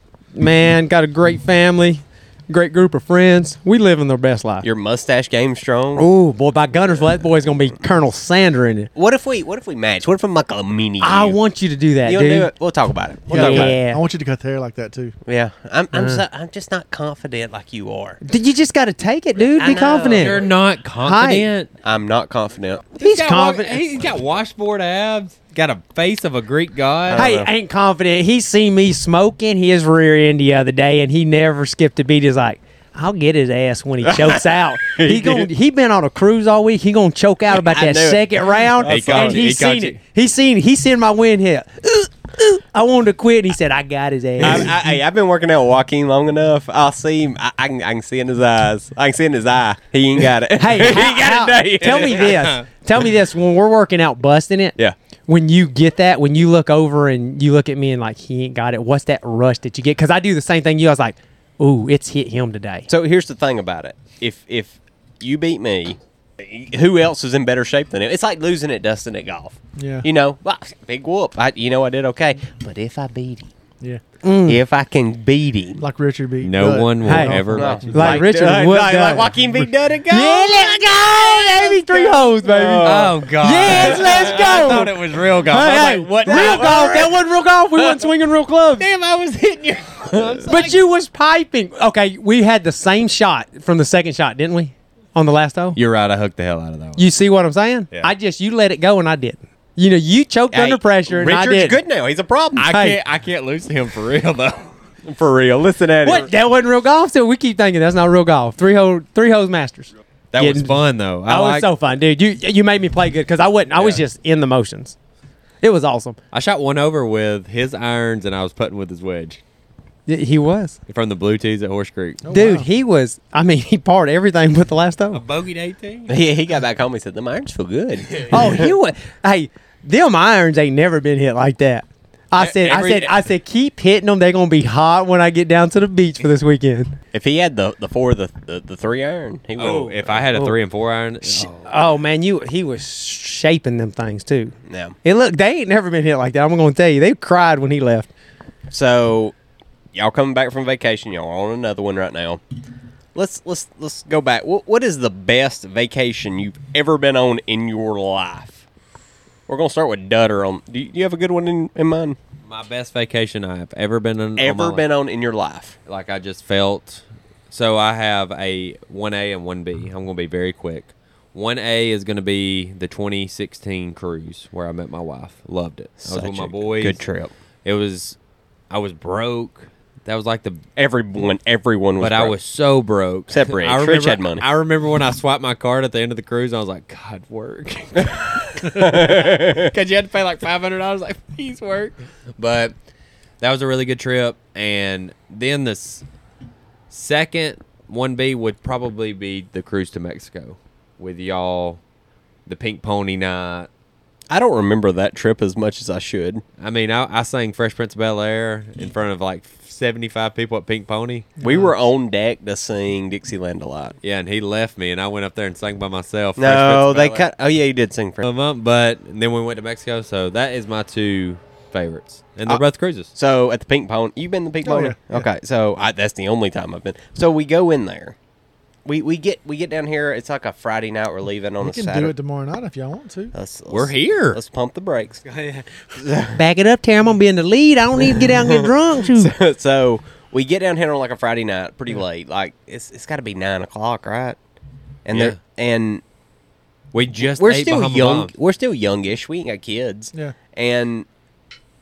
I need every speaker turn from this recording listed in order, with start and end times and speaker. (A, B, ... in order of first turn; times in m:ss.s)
0:00.3-0:04.6 A
0:04.6-0:06.1 B
0:06.0-0:08.9 A
0:08.9-0:11.4 B
0:11.0-0:12.5 A
0:12.0-0:13.7 B
0:13.3-0:15.1 C
0:13.3-0:14.0 A
0:15.2-0:18.2 B
0:15.9-0:16.2 A
0:18.2-0:20.4 A
0:19.6-0:20.4 B
0:20.0-0:21.7 D
0:21.0-0:21.5 A
0:21.8-0:22.9 B
0:23.0-0:27.2 D
0:23.0-0:23.8 A
0:27.1-0:27.5 B
0:27.1-0:44.7 A
0:34.1-0:35.5 B
0:37.5-0:39.4 B
0:38.8-0:40.0 D
0:44.4-0:52.5 B
0:50.6-0:54.8 A
0:51.9-0:52.6 D
0:55.3-1:02.9 A
1:02.9-1:13.5 B
1:09.8-1:10.1 C
1:14.2-1:14.6 A
1:14.4-1:15.8 B
1:15.8-1:18.3 C
1:16.4-1:18.1 D
1:17.0-1:19.3 A
1:17.5-1:24.7 B
1:20.1-1:28.8 A
1:22.8-1:27.1 D
1:26.2-1:27.1 B
1:28.8-1:30.7 D
1:30.4-1:35.8 A
1:35.8-1:37.0 D
1:37.0-1:41.8 A
1:40.5-1:42.7 B
1:42.6-1:44.7 D
1:42.6-1:43.0 A
1:45.0-1:46.3 B
1:46.0-1:50.7 A
1:50.3-1:51.7 D
1:51.2-1:55.0 A
1:53.8-1:54.0 D
1:55.6-1:56.2 A
1:56.3-1:59.4 D
2:00.1-2:00.8 A
2:00.9-2:02.2 D
2:02.2-2:02.7 C
2:02.3-2:05.2 A
2:05.1-2:06.1 D
2:06.1-2:08.6 B
2:08.3-2:17.0 A
2:12.4-2:13.1 D
2:17.1-2:20.4 B
2:19.6-2:21.7 D
2:21.4-2:28.1 A
2:24.7-2:25.0 B
2:28.7-2:29.3 B
2:29.9-2:32.4 B
2:33.1-2:38.6 B
2:39.5-2:42.2 B
2:42.4-2:44.8 D
2:44.4-2:45.8 B
2:45.9-2:57.0 D
2:56.0-2:57.3 B
2:57.6-2:58.2 D
2:58.7-3:00.6 D
3:00.8-3:02.4 B
3:02.0-3:12.7 D
3:03.3-3:04.4 B
3:08.6-3:09.7 B
3:13.4-3:16.0 D
3:16.9-3:21.8 D
3:22.4-3:23.7 D
3:24.3-3:26.4 B
3:26.6-3:31.3 D
3:31.4-3:31.7 C
3:31.4-3:34.0 B
3:34.0-3:37.3 D
3:36.4-3:38.2 B
3:38.2-3:43.1 D
3:43.1-3:48.2 B
3:44.6-3:45.2 C
3:48.8-3:52.1 B
3:51.6-3:53.3 C
3:53.3-3:55.2 B
3:53.7-3:54.4 D
3:55.3-3:55.6 A
3:55.9-3:56.4 B
3:56.3-3:59.3 A
3:58.0-4:04.4 B
4:05.0-4:06.0 B
4:05.1-4:05.4 D
4:06.9-4:08.3 D
4:07.1-4:11.1 B